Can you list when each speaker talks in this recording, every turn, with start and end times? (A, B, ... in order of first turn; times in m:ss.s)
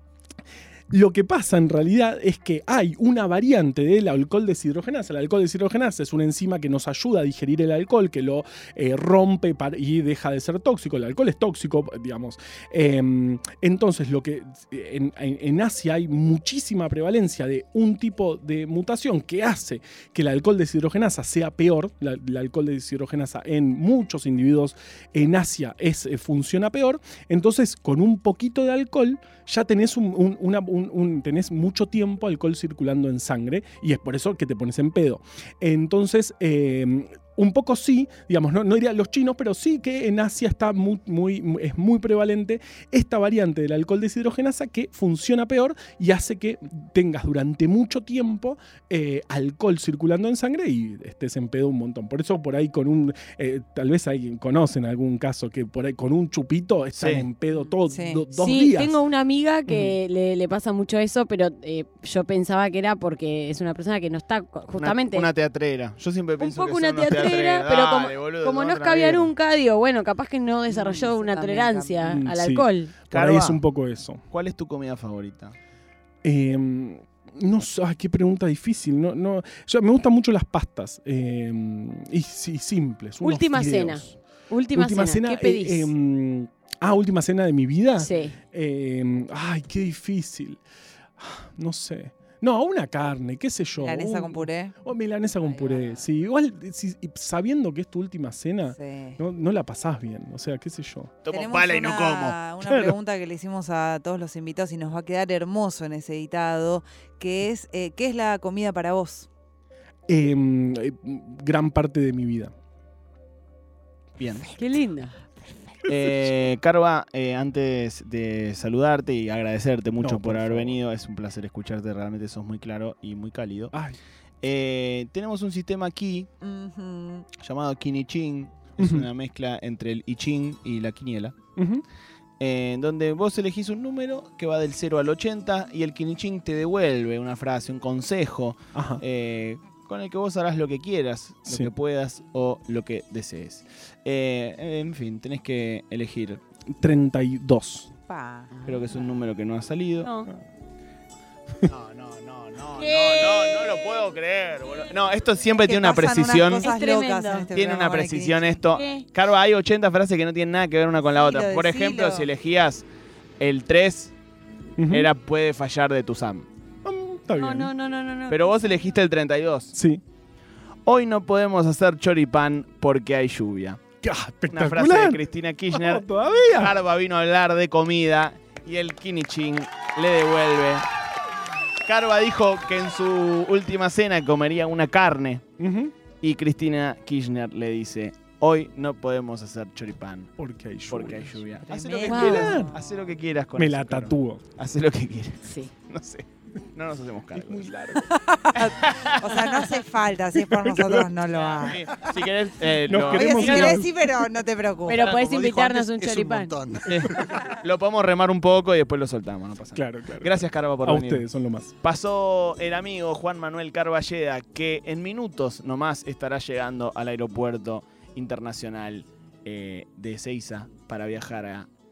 0:00.9-0:59.0 A
0:57.0-0:57.3 B
0:57.5-0:58.2 C
0:58.3-1:05.3 D
0:59.7-1:00.0 A
1:04.7-1:09.3 B
1:06.4-1:12.9 D
1:10.7-1:12.2 C
1:12.0-1:14.2 A
1:13.1-1:13.6 B
1:14.3-1:15.6 B
1:16.2-1:24.2 A
1:23.2-1:25.9 D
1:24.7-1:30.6 A
1:28.0-1:28.4 D
1:31.2-1:41.1 A
1:33.8-1:34.8 C
1:35.4-1:36.0 C
1:38.7-1:39.2 C
1:41.2-1:42.4 B
1:41.3-1:49.3 C
1:42.6-1:43.0 A
1:50.1-1:52.5 A
1:54.2-1:54.5 B
1:54.5-1:55.2 D
1:55.9-2:03.7 B
2:00.0-2:00.8 A
2:03.7-2:04.0 A
2:04.4-2:06.3 B
2:06.4-2:07.3 C
2:07.4-2:11.4 B
2:08.8-2:09.1 A
2:11.6-2:11.8 A
2:12.4-2:26.4 B
2:18.7-2:19.0 A
2:26.8-2:27.9 A
2:28.1-2:28.5 C
2:28.5-2:28.9 D
2:28.7-2:30.1 B
2:30.0-2:30.3 D
2:31.7-2:36.7 B
2:32.7-2:34.0 D
2:35.5-2:38.5 C
2:36.6-2:37.5 D
2:37.5-2:42.8 B
2:38.7-2:39.1 D
2:41.1-2:42.3 C
2:43.4-2:44.1 B
2:44.8-2:45.1 A
2:44.9-2:46.5 B
2:46.8-2:47.7 A
2:47.4-2:48.5 D
2:48.3-2:49.7 B
2:49.7-2:50.0 A
2:50.9-2:53.8 B
2:54.0-2:56.8 A
2:54.5-3:00.9 B
3:01.8-3:05.4 B
3:05.6-3:05.9 A
3:06.2-3:10.3 B
3:10.4-3:11.4 A
3:10.9-3:17.7 B
3:11.7-3:12.8 C
3:12.0-3:12.7 A
3:12.3-3:12.6 D
3:13.6-3:14.5 A
3:15.4-3:15.7 D
3:17.3-3:18.1 A
3:18.0-3:22.1 C
3:18.6-3:19.2 B
3:20.4-3:21.1 A
3:21.3-3:23.8 B
3:22.9-3:23.9 A
3:23.0-3:25.0 C
3:23.4-3:23.8 D
3:24.9-3:26.6 D
3:24.9-3:25.9 B
3:25.4-3:27.4 E
3:26.8-3:31.2 B
3:29.7-3:31.7 A
3:31.8-3:41.7 B